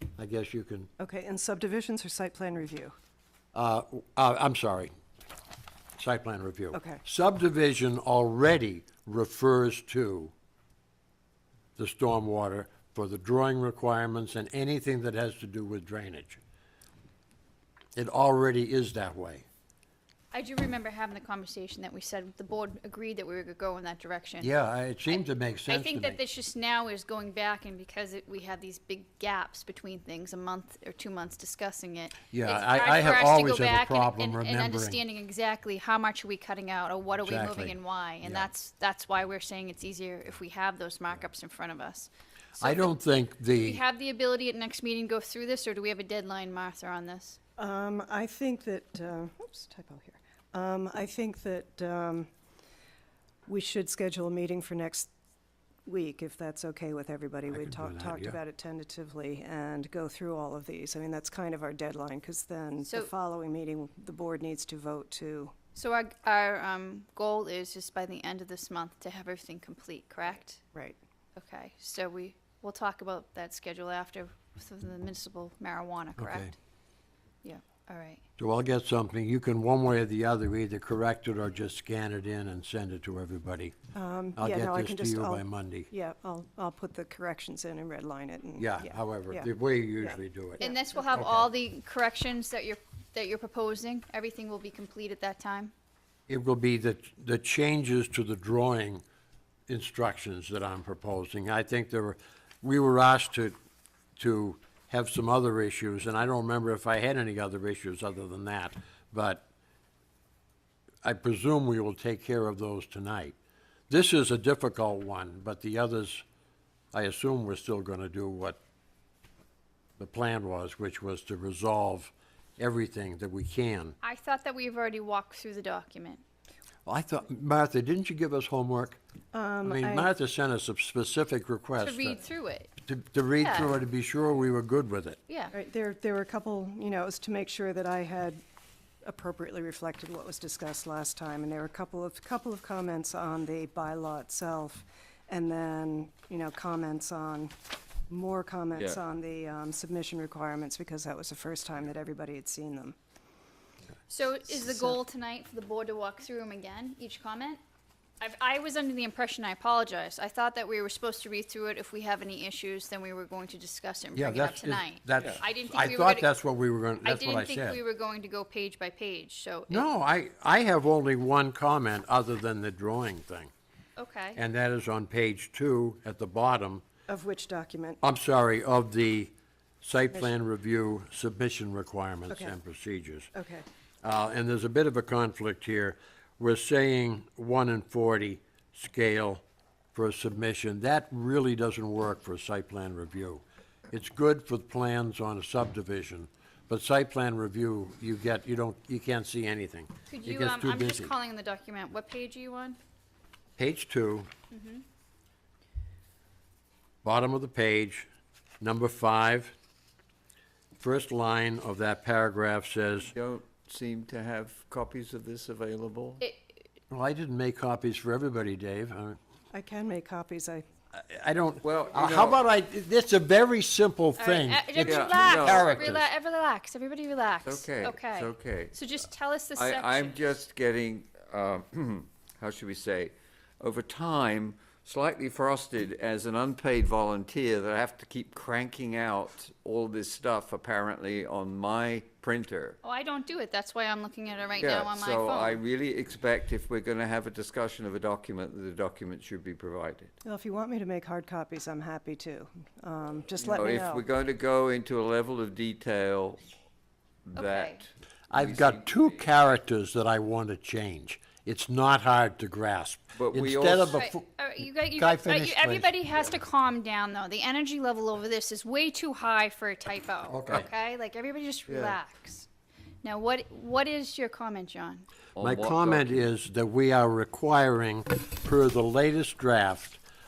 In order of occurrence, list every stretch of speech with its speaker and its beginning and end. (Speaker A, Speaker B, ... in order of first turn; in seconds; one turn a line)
Speaker A: 0.2-0.9
Speaker B: 1.0-2.9
Speaker A: 3.5-4.9
Speaker A: 6.0-10.3
Speaker B: 6.7-7.0
Speaker A: 11.8-16.4
Speaker A: 17.9-19.4
Speaker C: 20.3-24.5
Speaker A: 24.4-26.2
Speaker C: 25.1-42.9
Speaker A: 32.3-35.0
Speaker A: 37.2-38.5
Speaker A: 42.6-43.8
Speaker C: 43.5-47.4
Speaker B: 47.6-52.3
Speaker B: 53.5-55.1
Speaker B: 55.9-65.5
Speaker A: 57.5-58.4
Speaker C: 65.8-70.6
Speaker C: 71.3-76.5
Speaker A: 76.2-76.5
Speaker C: 77.4-78.2
Speaker A: 78.4-83.7
Speaker B: 83.9-91.0
Speaker A: 84.4-85.9
Speaker A: 88.6-91.5
Speaker C: 90.6-95.7
Speaker A: 96.3-99.0
Speaker A: 99.7-103.5
Speaker A: 104.2-109.5
Speaker A: 111.0-113.3
Speaker A: 113.9-116.2
Speaker A: 116.9-118.6
Speaker A: 120.0-124.0
Speaker C: 124.0-126.2
Speaker A: 126.8-129.0
Speaker B: 129.3-130.1
Speaker A: 129.6-132.2
Speaker C: 131.8-132.7
Speaker A: 132.8-135.2
Speaker C: 133.4-133.7
Speaker C: 135.3-135.5
Speaker B: 135.5-138.4
Speaker B: 139.0-147.5
Speaker B: 148.1-152.9
Speaker C: 154.1-157.6
Speaker B: 154.7-154.9
Speaker C: 158.2-166.3
Speaker A: 164.1-167.8
Speaker C: 167.0-169.9
Speaker A: 169.7-173.5
Speaker C: 174.0-174.4
Speaker A: 174.3-176.8
Speaker B: 177.1-178.0
Speaker A: 178.0-183.3
Speaker B: 182.3-182.5
Speaker B: 183.3-183.7
Speaker A: 184.0-189.4
Speaker A: 189.9-201.1
Speaker C: 200.1-202.8
Speaker A: 203.6-204.3
Speaker C: 204.5-204.8
Speaker A: 207.0-208.1
Speaker A: 208.6-209.5
Speaker A: 210.8-213.1
Speaker D: 213.1-216.2
Speaker C: 216.2-216.6
Speaker A: 216.9-219.2
Speaker B: 219.5-220.7
Speaker A: 220.9-226.1
Speaker D: 221.6-222.4
Speaker C: 224.2-230.3
Speaker D: 224.8-225.9
Speaker D: 227.4-228.8
Speaker D: 229.6-242.8
Speaker C: 242.8-245.6
Speaker D: 244.6-250.1
Speaker B: 250.2-254.0
Speaker D: 253.4-256.4
Speaker D: 257.2-259.3
Speaker C: 257.4-257.8
Speaker A: 258.3-264.2
Speaker D: 263.1-264.0
Speaker C: 263.9-272.5
Speaker A: 264.9-266.0
Speaker A: 270.3-270.7
Speaker D: 271.7-272.0
Speaker C: 273.0-275.1
Speaker D: 275.4-276.3
Speaker A: 275.4-280.0